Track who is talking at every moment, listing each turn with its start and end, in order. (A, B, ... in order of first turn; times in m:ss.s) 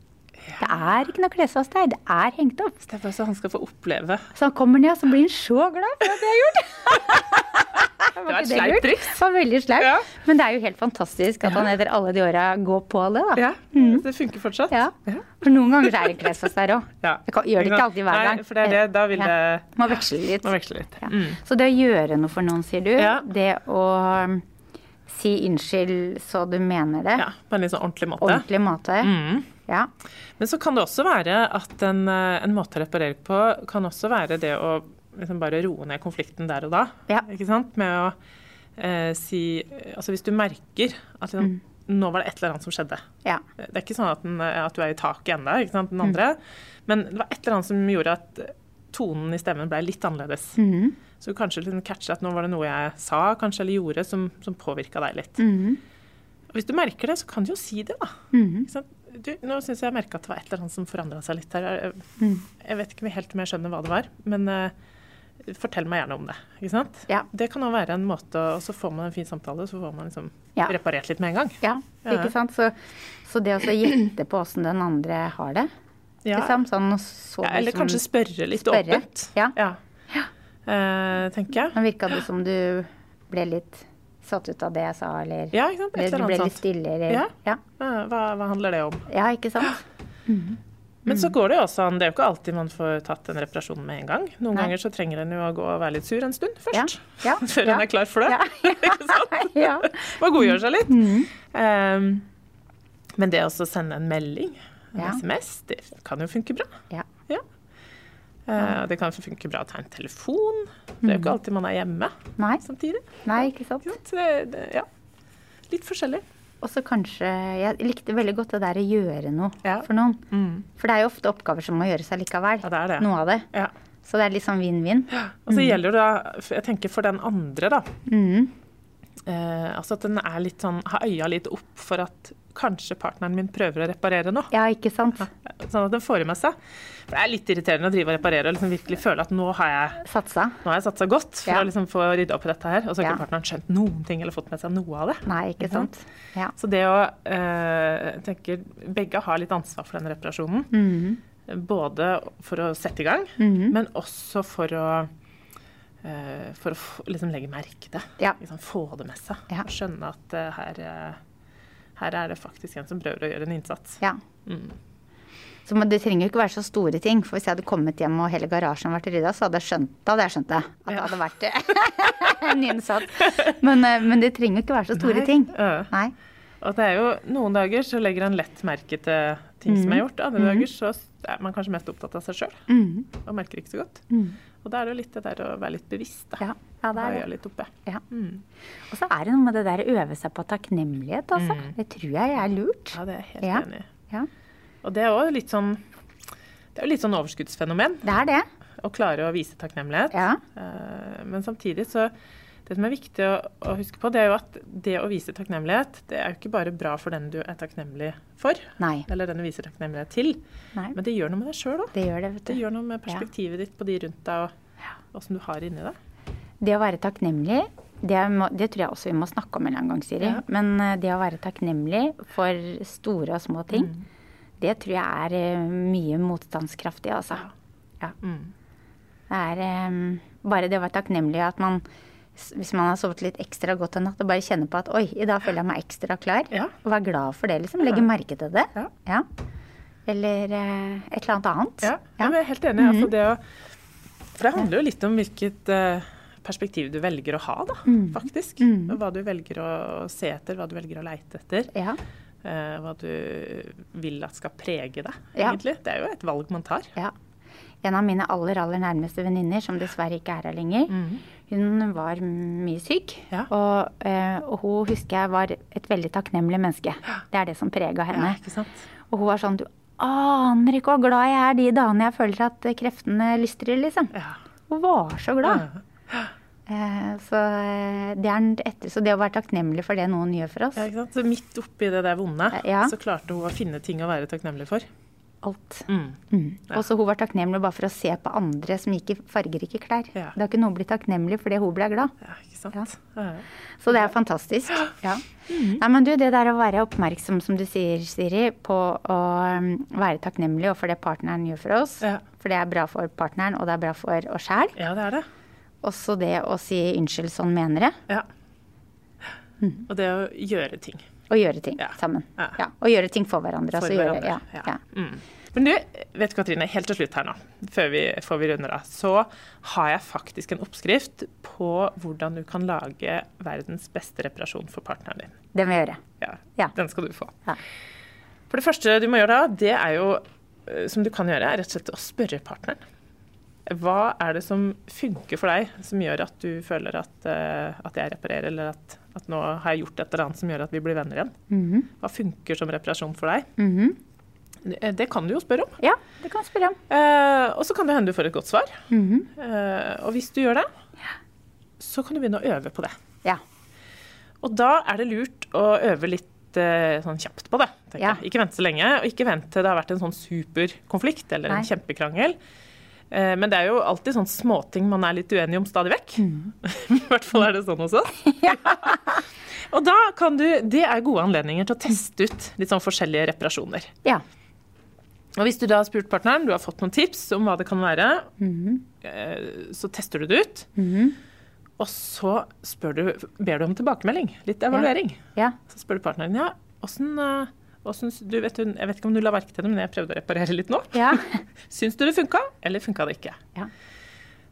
0:00.6-0:02.8 A
0:02.9-0:04.3 B
0:04.3-0:14.0 A
0:08.2-0:09.2 B
0:09.8-0:10.0 B
0:13.4-0:15.3 B
0:14.7-0:24.4 A
0:15.8-0:16.3 B
0:17.0-0:19.8 B
0:20.4-0:21.4 B
0:23.0-0:23.2 B
0:25.1-0:27.2 A
0:27.2-0:28.4 B
0:28.2-0:29.1 A
0:29.0-0:29.5 B
0:30.4-0:38.2 B
0:38.8-0:43.0 B
0:43.6-0:50.6 B
0:50.6-0:51.0 A
0:51.2-0:55.4 B
0:55.4-0:55.8 A
0:56.5-0:58.1 B
0:58.3-0:58.7 A
0:58.6-1:02.0 B
1:02.2-1:02.4 A
1:02.6-1:04.7 B
1:05.4-1:12.3 B
1:11.6-1:12.7 A
1:13.2-1:15.7 A
1:16.2-1:16.6 B
1:16.3-1:19.5 A
1:17.4-1:19.8 B
1:20.7-1:21.8 B
1:21.7-1:27.6 A
1:25.5-1:29.1 B
1:29.1-1:31.3 A
1:31.0-1:42.2 B
1:36.7-1:41.3 A
1:43.2-1:46.7 B
1:48.5-1:54.8 B
1:51.0-1:51.3 A
1:52.4-1:52.6 A
1:53.2-1:53.9 A
1:55.7-1:56.2 B
1:56.6-2:00.2 A
1:59.6-2:00.6 B
2:00.8-2:03.5 A
2:02.6-2:03.7 B
2:04.0-2:05.8 A
2:05.1-2:07.9 B
2:08.1-2:08.5 A
2:09.3-2:14.5 B
2:14.5-2:15.3 A
2:15.2-2:16.6 B
2:17.1-2:20.0 B
2:20.0-2:20.6 A
2:20.6-2:25.9 B
2:25.2-2:26.5 A
2:26.6-2:30.7 B
2:30.7-2:31.2 A
2:31.5-2:35.1 B
2:33.4-2:33.7 A
2:36.0-2:41.2 B
2:42.0-2:44.7 B
2:45.6-2:56.1 A
2:54.9-2:55.9 B
2:56.6-3:02.6 B
2:59.7-3:00.6 A
3:02.7-3:03.1 A
3:03.2-3:04.0 B
3:04.1-3:04.4 A
3:04.6-3:06.4 B
3:06.4-3:07.2 A
3:06.9-3:08.4 B
3:08.9-3:14.3 A
3:11.4-3:11.7 B
3:12.9-3:13.9 B
3:14.8-3:15.8 B
3:16.7-3:18.1 B
3:18.0-3:18.4 A
3:18.8-3:22.1 B
3:20.1-3:20.4 A
3:22.6-3:30.4 B
3:28.8-3:29.0 A
3:30.9-3:31.9 B
3:31.9-3:33.2 A
3:32.5-3:34.5 B
3:35.1-3:36.0 B
3:36.6-3:43.9 A
3:43.7-3:44.0 B
3:44.6-3:47.4 A
3:48.2-3:48.5 B
3:49.3-3:51.8 A
3:52.4-3:59.2 A
4:00.1-4:03.1 A
4:01.8-4:03.4 B
4:04.4-4:11.7 B
4:07.9-4:09.0 A
4:11.7-4:12.0 A
4:12.4-4:16.9 B
4:17.8-4:28.4 A
4:20.9-4:21.2 B
4:28.1-4:28.8 B
4:29.1-4:34.1 A
4:34.7-4:35.6 A
4:35.4-4:36.3 B
4:36.7-4:40.8 A
4:40.8-4:44.8 B
4:42.5-4:42.9 A
4:45.4-4:52.1 A
4:45.9-4:46.2 B
4:52.2-4:54.1 B
4:53.8-4:55.2 A
4:55.5-4:55.8 B
4:55.8-5:04.8 A
5:04.8-5:05.2 B
5:05.8-5:08.0 A
5:09.9-5:11.0 B
5:11.3-5:14.8 A
5:11.8-5:12.6 B
5:13.8-5:25.3 B
5:25.5-5:26.0 A
5:26.2-5:27.4 B
5:28.5-5:32.8 B
5:33.7-5:41.3 B
5:41.5-5:41.9 A
5:42.0-5:43.5 B
5:43.6-5:44.0 A
5:44.6-5:45.8 B
5:45.8-5:46.8 A
5:46.9-5:48.8 B
5:48.9-5:49.3 A
5:49.4-5:50.7 B
5:51.8-5:52.9 B
5:54.4-6:02.4 B
6:03.1-6:09.1 B
6:06.2-6:06.5 A
6:08.4-6:08.9 A
6:09.7-6:13.9 B
6:15.4-6:18.3 B
6:18.4-6:18.8 A
6:19.0-6:20.7 B
6:20.8-6:21.2 A
6:21.8-6:33.4 B
6:24.7-6:25.5 A
6:30.9-6:31.2 A